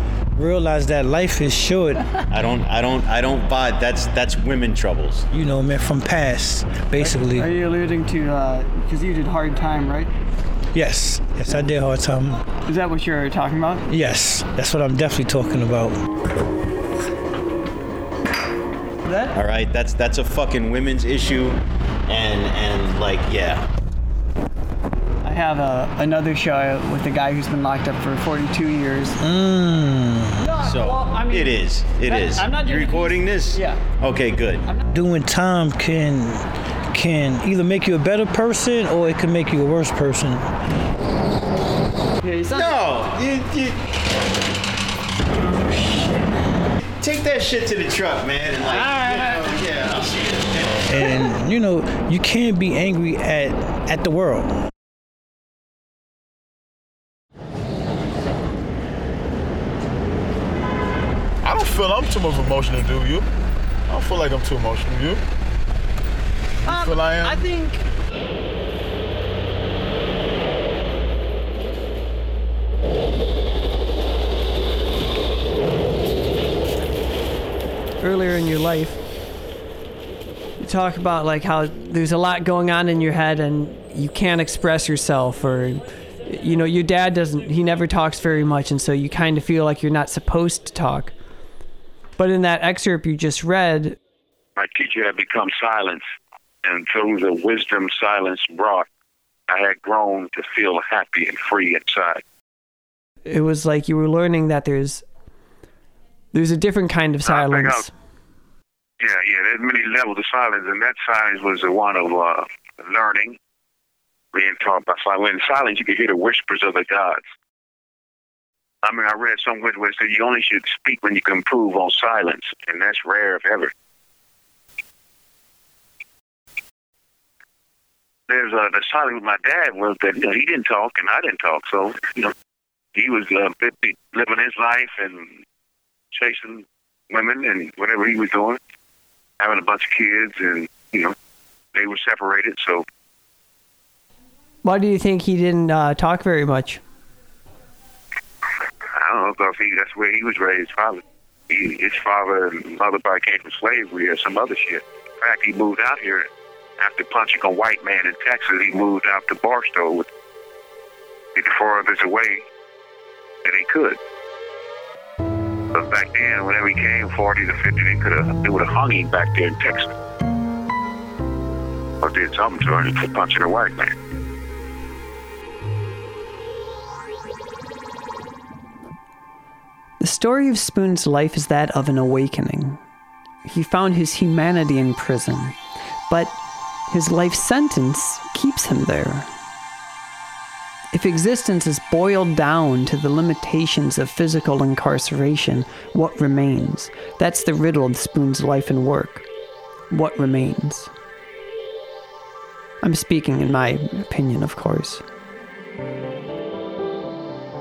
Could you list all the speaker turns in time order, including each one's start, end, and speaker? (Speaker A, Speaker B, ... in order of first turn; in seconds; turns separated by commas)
Speaker A: 0.3-2.2, Speaker B: 2.3-5.3, Speaker A: 5.3-7.5, Speaker C: 7.0-10.1, Speaker A: 10.7-12.4, Speaker C: 12.7-13.8, Speaker A: 13.9-16.0, Speaker C: 19.0-19.4, Speaker B: 19.3-23.7, Speaker C: 25.2-29.2, Speaker A: 29.2-30.6, Speaker C: 30.4-33.8, Speaker B: 30.6-34.7, Speaker A: 34.9-40.5, Speaker C: 42.2-42.8, Speaker B: 42.5-43.8, Speaker B: 47.0-51.1, Speaker C: 48.7-49.6, Speaker A: 50.9-54.5, Speaker D: 61.4-63.3, Speaker D: 63.9-65.2, Speaker D: 66.7-67.4, Speaker C: 66.7-67.8, Speaker C: 78.0-79.0, Speaker C: 80.6-91.1, Speaker C: 92.2-94.0, Speaker E: 94.6-96.0, Speaker E: 96.7-98.9, Speaker E: 99.5-102.2, Speaker C: 103.3-105.0, Speaker C: 106.3-107.9, Speaker E: 107.3-107.8, Speaker E: 109.0-113.4, Speaker E: 114.3-117.2, Speaker E: 118.8-123.7, Speaker E: 128.3-132.3, Speaker E: 132.9-135.3, Speaker E: 136.1-138.6, Speaker E: 139.4-141.1, Speaker E: 141.7-142.8, Speaker C: 144.6-146.8, Speaker E: 148.9-156.3, Speaker E: 156.8-160.1, Speaker E: 161.3-162.4, Speaker E: 163.4-164.0, Speaker E: 165.7-169.9, Speaker E: 172.0-173.9, Speaker C: 180.0-182.8, Speaker C: 183.4-185.6, Speaker C: 186.1-186.4, Speaker C: 186.9-189.3, Speaker C: 190.9-199.3, Speaker C: 199.9-200.9, Speaker C: 202.8-205.0